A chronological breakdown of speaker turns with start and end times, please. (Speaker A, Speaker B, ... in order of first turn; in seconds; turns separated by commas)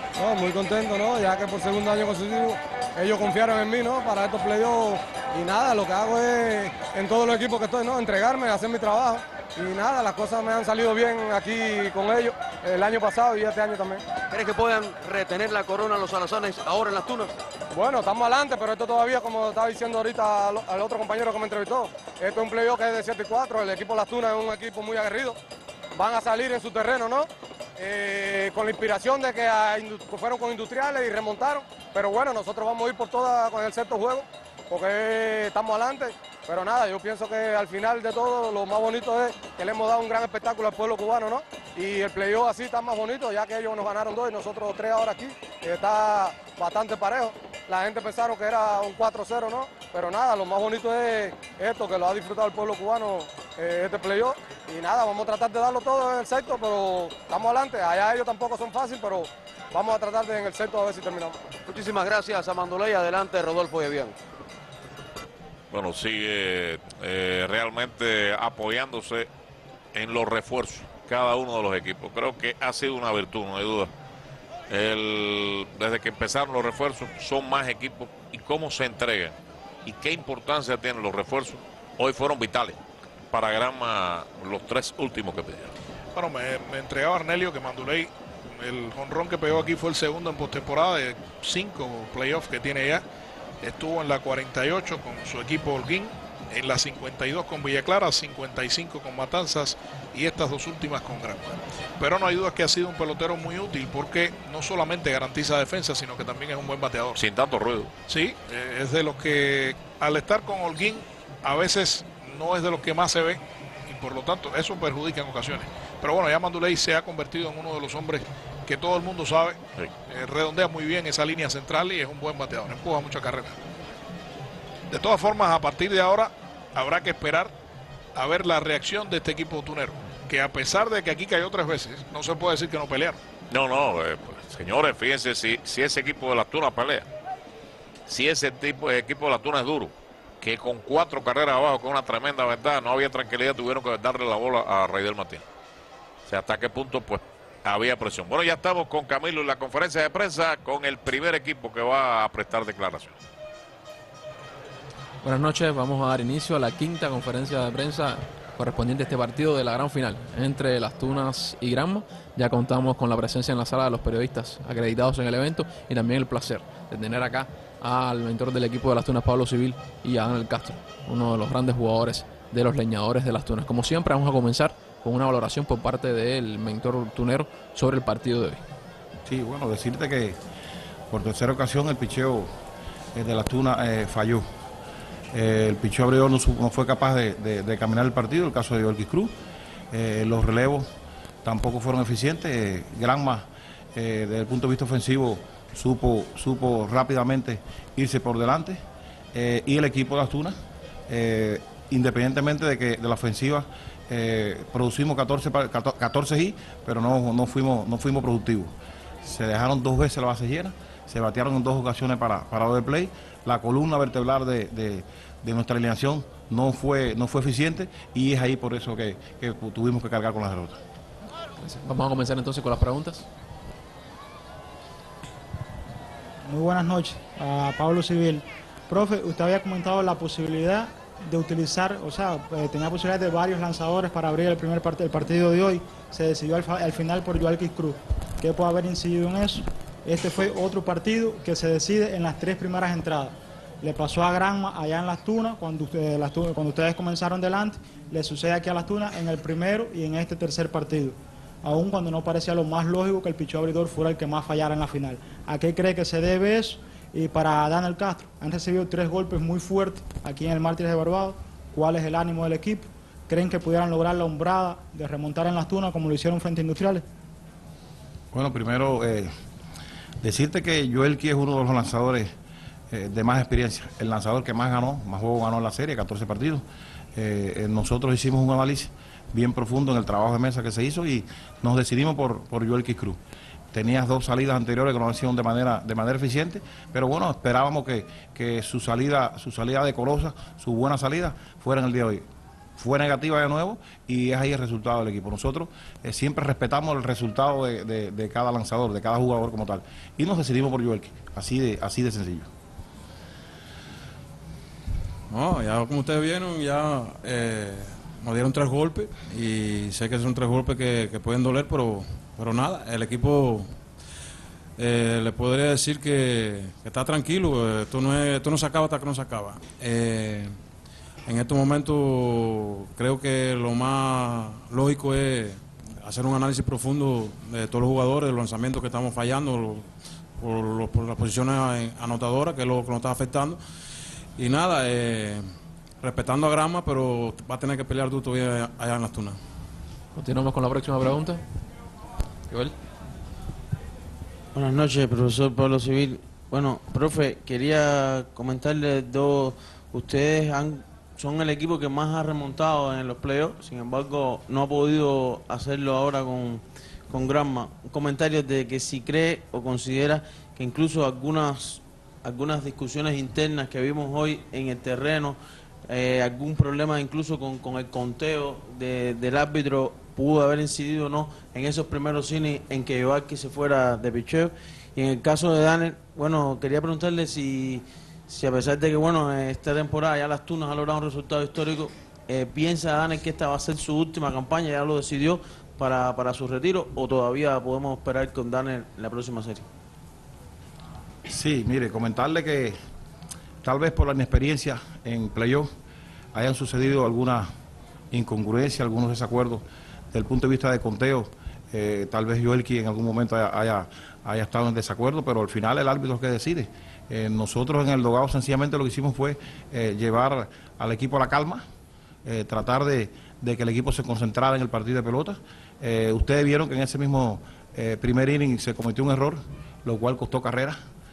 Speaker A: 0.2-14.0, Speaker B: 14.3-17.4, Speaker A: 17.8-25.3, Speaker A: 26.1-27.2, Speaker A: 27.9-34.1, Speaker A: 34.9-36.0, Speaker A: 36.6-44.9, Speaker A: 46.0-47.2, Speaker A: 47.9-48.9, Speaker A: 52.3-54.2, Speaker A: 55.7-56.2, Speaker A: 58.6-58.9, Speaker A: 60.5-60.9, Speaker B: 61.7-64.2, Speaker C: 65.7-69.3, Speaker C: 69.9-73.9, Speaker C: 74.7-82.8, Speaker C: 83.3-85.7, Speaker D: 86.2-88.0, Speaker D: 88.8-92.9, Speaker D: 93.7-96.0, Speaker D: 96.6-99.6, Speaker D: 100.2-101.4, Speaker D: 102.0-107.2, Speaker C: 107.2-107.9, Speaker D: 108.2-111.0, Speaker D: 111.5-113.3, Speaker D: 114.0-118.2, Speaker D: 118.7-119.5, Speaker D: 120.2-123.5, Speaker D: 124.9-126.3, Speaker D: 126.8-127.5, Speaker D: 128.2-133.1, Speaker C: 133.5-137.1, Speaker C: 138.1-145.4, Speaker C: 146.3-153.2, Speaker E: 155.2-178.6, Speaker F: 179.3-180.4, Speaker F: 181.1-182.5, Speaker F: 183.2-184.4, Speaker F: 185.3-189.3, Speaker F: 189.9-190.9, Speaker F: 191.4-198.8, Speaker F: 199.3-200.6, Speaker F: 201.1-208.7, Speaker F: 209.2-220.8, Speaker E: 221.6-223.3, Speaker G: 226.4-267.1, Speaker F: 268.3-269.3, Speaker F: 270.2-272.3, Speaker F: 272.9-276.6, Speaker F: 277.2-283.2, Speaker F: 283.7-292.2, Speaker F: 292.8-302.5, Speaker H: 305.3-313.7, Speaker H: 314.8-320.5, Speaker H: 321.3-333.6, Speaker H: 334.4-335.4, Speaker H: 336.0-339.4, Speaker E: 340.1-341.4, Speaker I: 344.6-389.6, Speaker F: 391.3-392.8, Speaker F: 393.6-395.7, Speaker F: 396.3-397.5, Speaker F: 398.1-411.6, Speaker F: 412.2-420.8